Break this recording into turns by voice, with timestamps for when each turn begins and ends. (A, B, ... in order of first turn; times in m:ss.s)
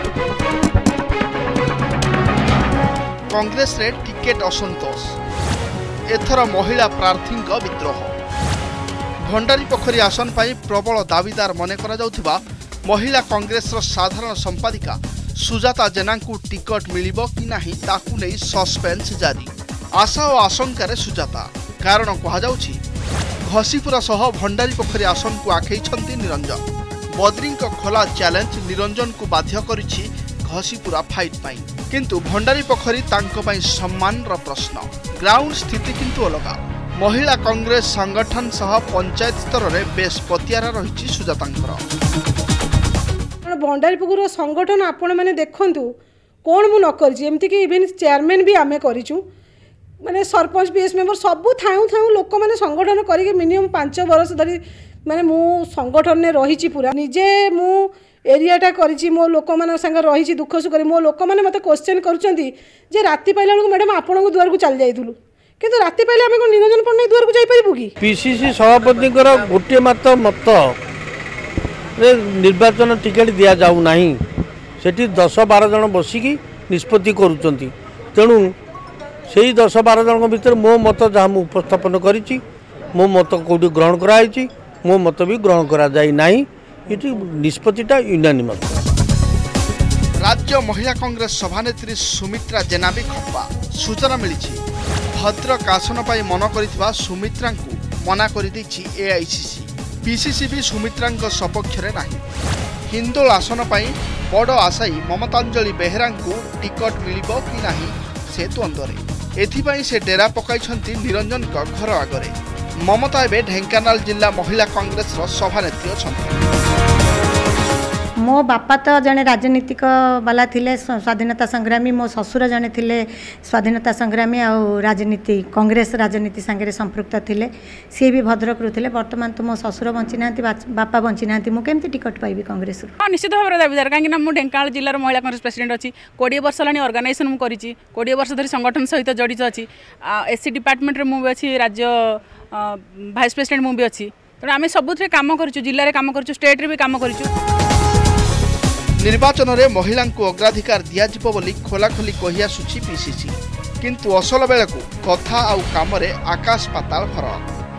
0:03.3-0:05.1 A
0:06.1-0:08.1 A
0:09.3-0:22.8 A
0:23.5-0:26.6 A
0:27.2-0:41.8 A
0:43.4-0:45.9 B
0:46.4-0:49.2 B
0:50.0-1:07.9 B
1:08.0-1:10.8 C
1:12.0-1:14.2 C
1:14.8-1:18.5 C
1:19.3-1:22.4 C
1:22.9-1:28.8 C
1:30.2-1:34.6 A
1:35.1-1:42.2 A
1:42.9-1:52.3 A
1:52.8-1:56.4 A
1:58.2-2:12.9 D
2:13.0-2:27.3 E
2:29.0-2:37.4 A